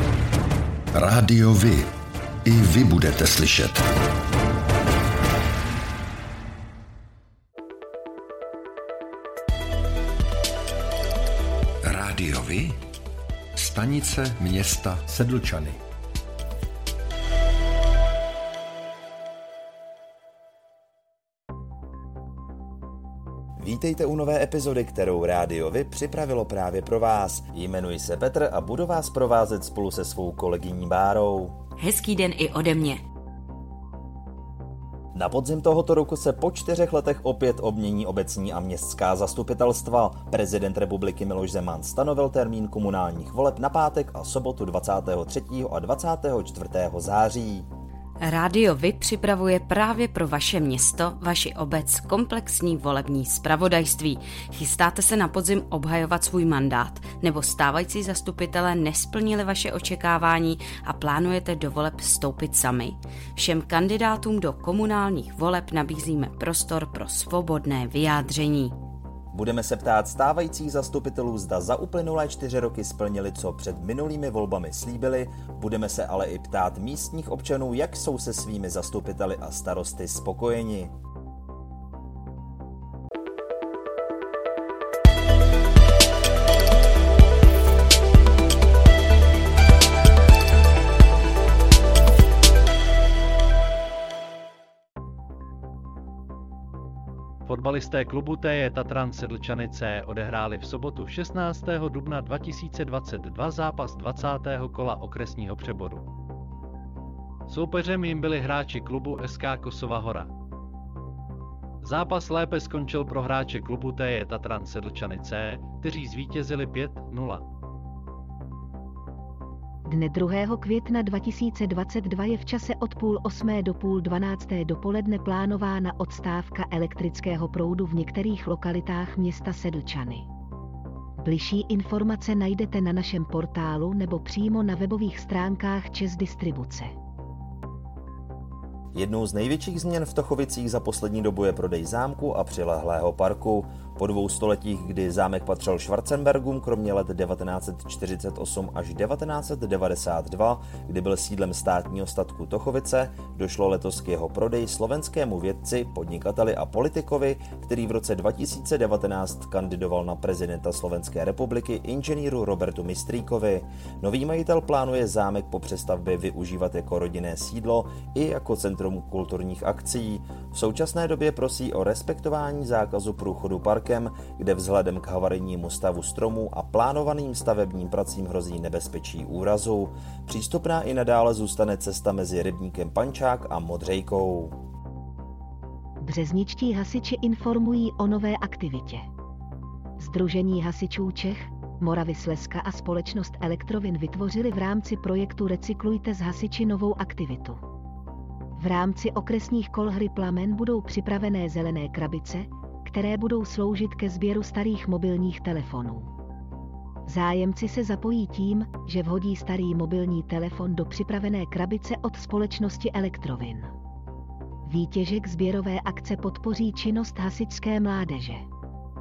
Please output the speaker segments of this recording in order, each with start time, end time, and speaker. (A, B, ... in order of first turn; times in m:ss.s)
0:00.9-0:01.9 A
0:02.4-0:03.8 A
0:11.8-0:12.8 A
0:13.5-0:15.8 A
0:23.6-0:31.6 B
0:31.8-0:33.0 C
0:35.1-0:47.7 B
0:48.2-1:08.8 C
1:09.3-1:20.9 B
1:37.5-1:46.1 D
1:47.5-1:50.3 D
1:51.8-1:57.4 D
1:59.8-2:10.2 E
2:11.2-2:16.9 E
2:18.9-3:04.6 B
3:06.0-3:09.0 E
3:10.0-3:17.6 E
3:18.6-3:26.1 E
3:27.1-3:33.7 E
3:34.6-3:38.4 E